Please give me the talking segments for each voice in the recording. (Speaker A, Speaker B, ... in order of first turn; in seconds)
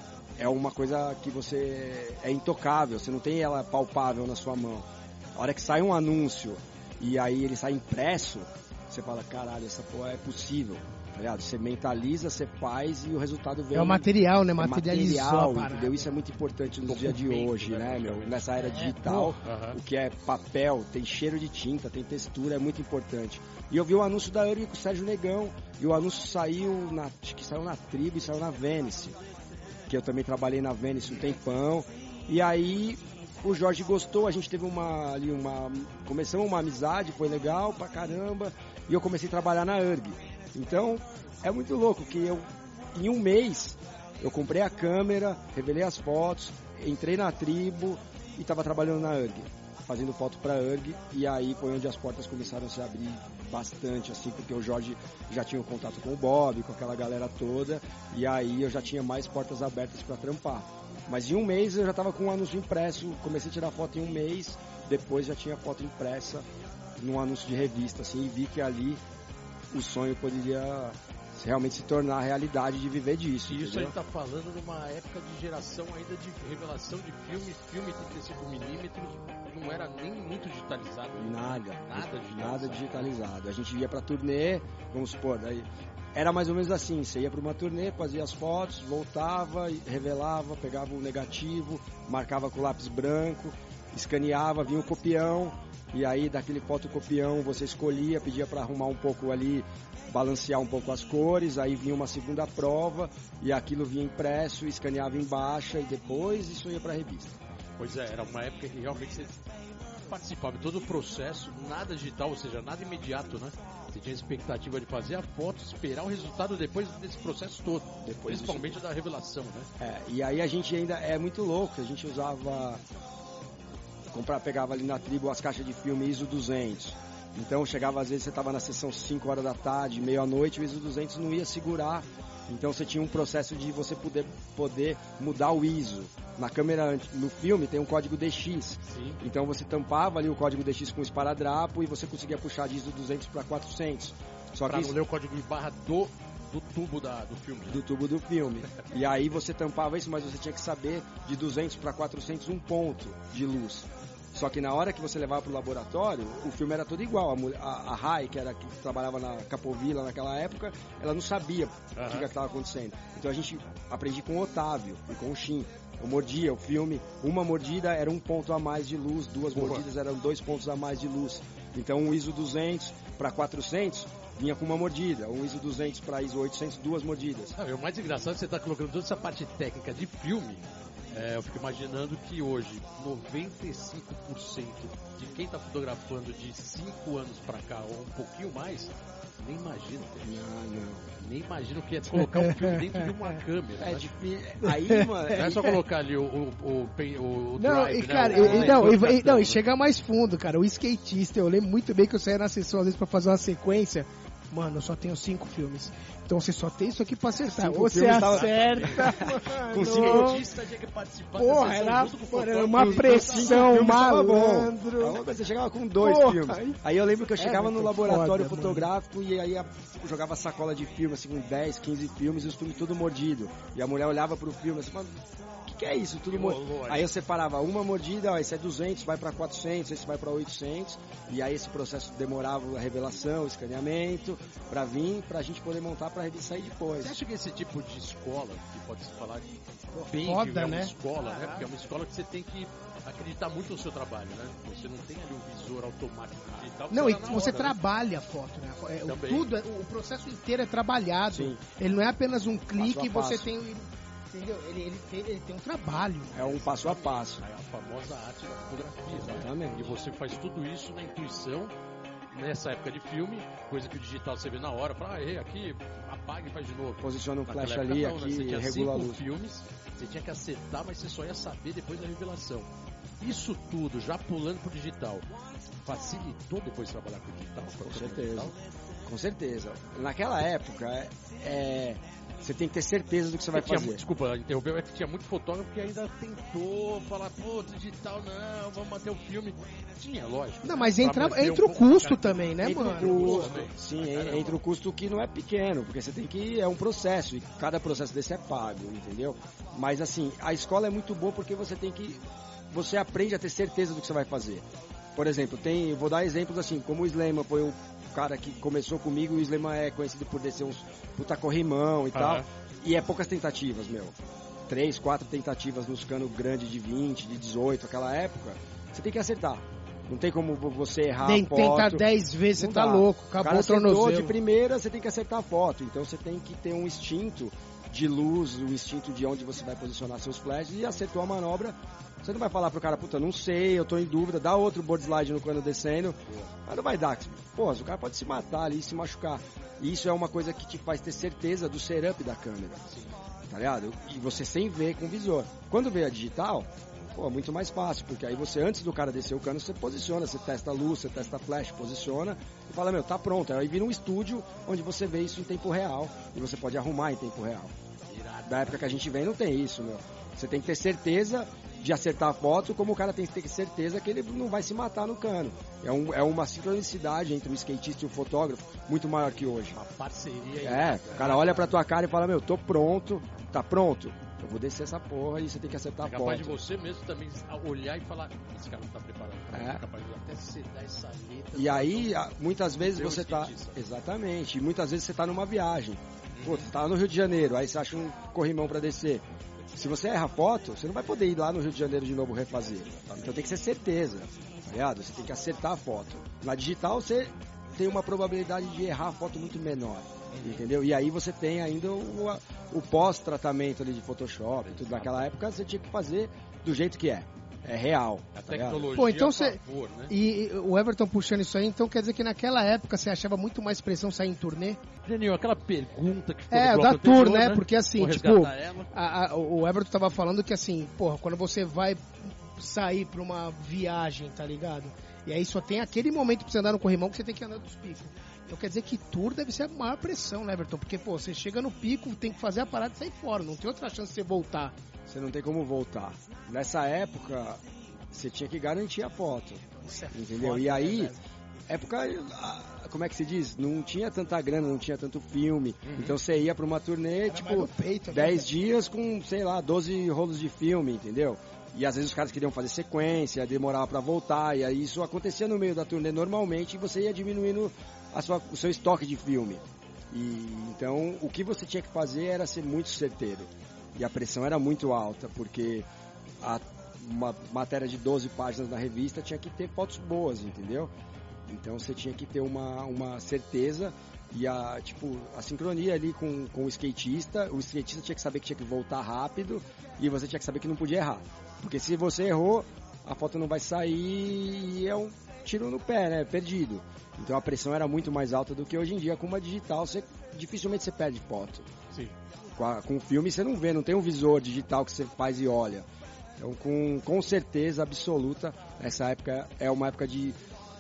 Speaker A: 0.4-29.2, 29.9-69.0, 69.7-73.9, 81.2-107.4, 118.0-118.8, 119.8-122.8, 124.1-145.0, 147.7-177.6, 190.2-191.1, 193.8-195.8, 198.3-198.9, 207.5-210.3, 212.7-225.1, 225.7-237.1, 251.3-251.6, 252.8-253.5, 256.3-257.4, 259.1-259.9, 267.0-269.2, 277.6-278.5, 279.1-284.0, 292.6-314.2, 314.7-342.8, 343.5-357.7, 358.4-369.8, 370.6-376.6, 379.5-379.8, 381.6-408.9, 435.1-441.1, 441.7-465.9, 466.4-470.9, 471.5-491.7, 492.6-495.9, 496.4-500.4
Speaker B: 13.7-16.1, 18.6-19.4, 192.2-192.8, 194.6-195.7, 197.6-210.4, 211.4-215.2, 216.0-216.8, 217.4-218.9, 239.9-241.7, 246.9-256.5, 290.6-293.5, 321.2-324.4, 408.9-414.8, 416.5-434.7, 439.8-441.2, 447.3-448.5
Speaker C: 16.9-18.4, 19.4-19.8, 73.5-83.1, 107.8-109.4, 110.1-119.7, 138.8-139.2, 144.6-147.8, 162.0-162.3, 169.5-169.8, 177.6-190.4, 191.2-194.1, 195.3-199.6, 208.0-213.8, 226.3-227.1, 237.0-239.5, 240.0-247.8, 249.1-249.5, 256.4-261.7, 262.3-272.7, 273.2-275.3, 275.8-278.6, 283.5-294.6, 312.1-312.5, 342.8-343.1, 358.1-359.2, 369.6-371.8, 376.0-382.3, 382.8-383.8, 386.4-386.7, 400.3-400.6, 404.7-405.3, 408.4-410.1, 415.0-418.9, 445.8-446.2